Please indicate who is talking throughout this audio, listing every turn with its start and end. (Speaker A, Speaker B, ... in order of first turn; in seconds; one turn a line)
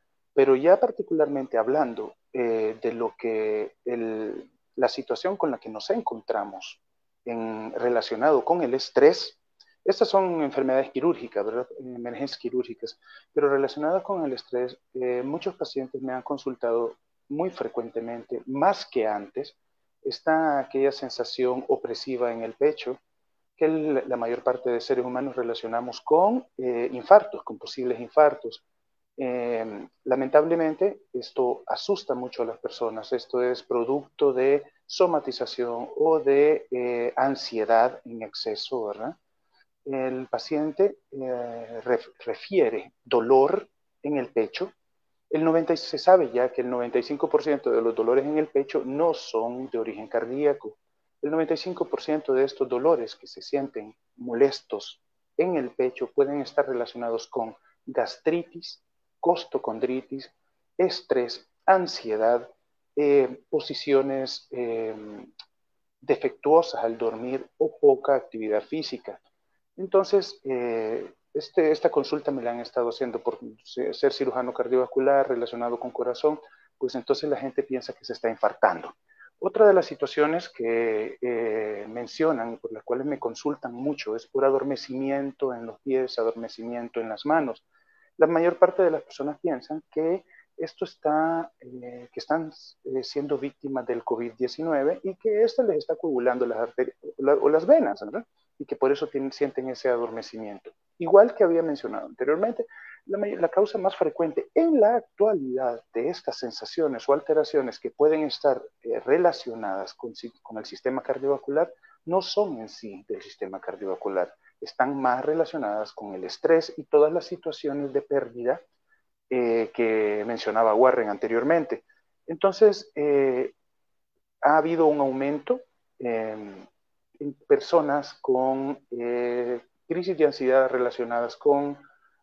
Speaker A: 0.3-23.0
Speaker A: 23.6-28.6
Speaker A: 29.2-39.2
Speaker A: 39.9-44.7
Speaker A: 45.3-65.3
Speaker A: 66.0-69.2
Speaker A: 69.8-87.6
Speaker A: 88.2-118.6
Speaker A: 119.3-123.5
Speaker A: 124.4-126.7
Speaker A: 127.2-131.8